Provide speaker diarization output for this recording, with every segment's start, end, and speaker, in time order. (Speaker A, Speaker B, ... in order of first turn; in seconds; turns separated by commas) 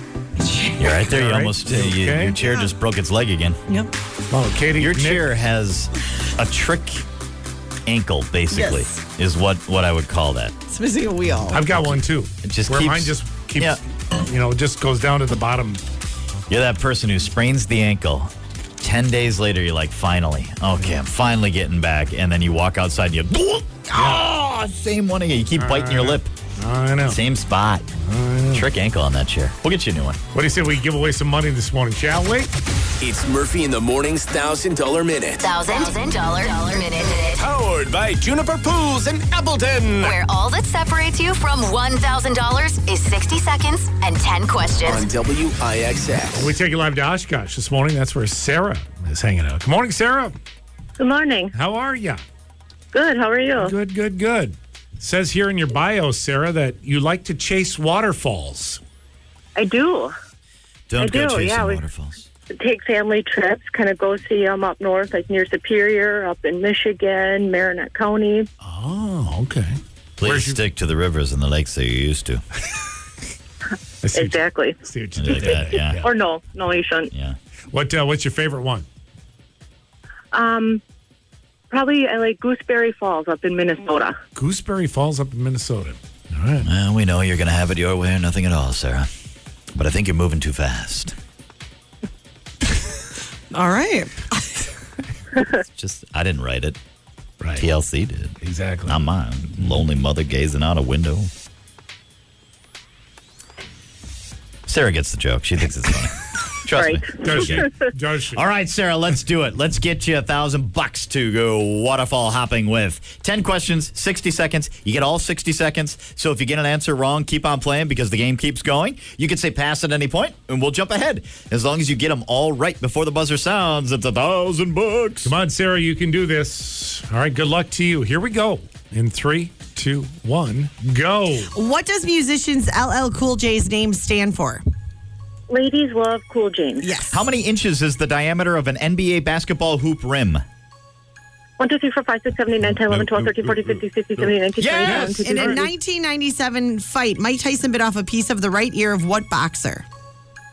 Speaker A: 0.8-3.6, Speaker B: 1.0-2.4, Speaker B: 4.3-5.3, Speaker A: 4.8-7.0, Speaker A: 7.9-10.5, Speaker C: 8.5-9.0, Speaker C: 10.7-11.6, Speaker B: 11.5-15.8, Speaker A: 11.8-13.8, Speaker A: 16.5-26.3, Speaker B: 24.0-24.2, Speaker B: 25.6-27.2, Speaker A: 27.1-27.9, Speaker B: 28.0-28.7, Speaker A: 28.5-30.2, Speaker B: 30.3-32.5, Speaker D: 33.0-35.5, Speaker E: 35.4-37.4, Speaker D: 37.4-40.2, Speaker E: 40.0-45.0, Speaker D: 44.8-46.5, Speaker B: 46.4-50.4, Speaker F: 51.0-51.5, Speaker B: 51.5-52.2, Speaker F: 52.9-53.7, Speaker B: 53.6-58.8, Speaker F: 59.6-60.1, Speaker A: 60.9-62.2, Speaker F: 61.0-61.8, Speaker F: 62.5-68.5, Speaker B: 68.6-70.6, Speaker A: 70.2-72.4, Speaker B: 74.0-76.1, Speaker F: 74.1-74.8, Speaker A: 75.2-76.0, Speaker F: 76.0-77.1, Speaker B: 77.7-78.9, Speaker F: 80.3-80.8, Speaker F: 81.7-84.2, Speaker B: 84.3-86.7, Speaker A: 86.6-89.1, Speaker A: 89.7-91.1, Speaker C: 93.5-94.7, Speaker A: 95.5-96.8, Speaker B: 97.4-97.7, Speaker A: 97.6-101.3, Speaker B: 98.4-99.0, Speaker A: 104.7-107.7, Speaker F: 106.7-107.7, Speaker B: 107.2-108.4, Speaker A: 108.3-125.3, Speaker B: 125.2-131.5, Speaker C: 131.5-134.6, Speaker F: 135.5-136.9, Speaker C: 136.8-137.2, Speaker A: 137.1-140.4, Speaker F: 141.6-145.6, Speaker A: 142.8-145.6, Speaker B: 144.8-145.6, Speaker C: 145.1-149.8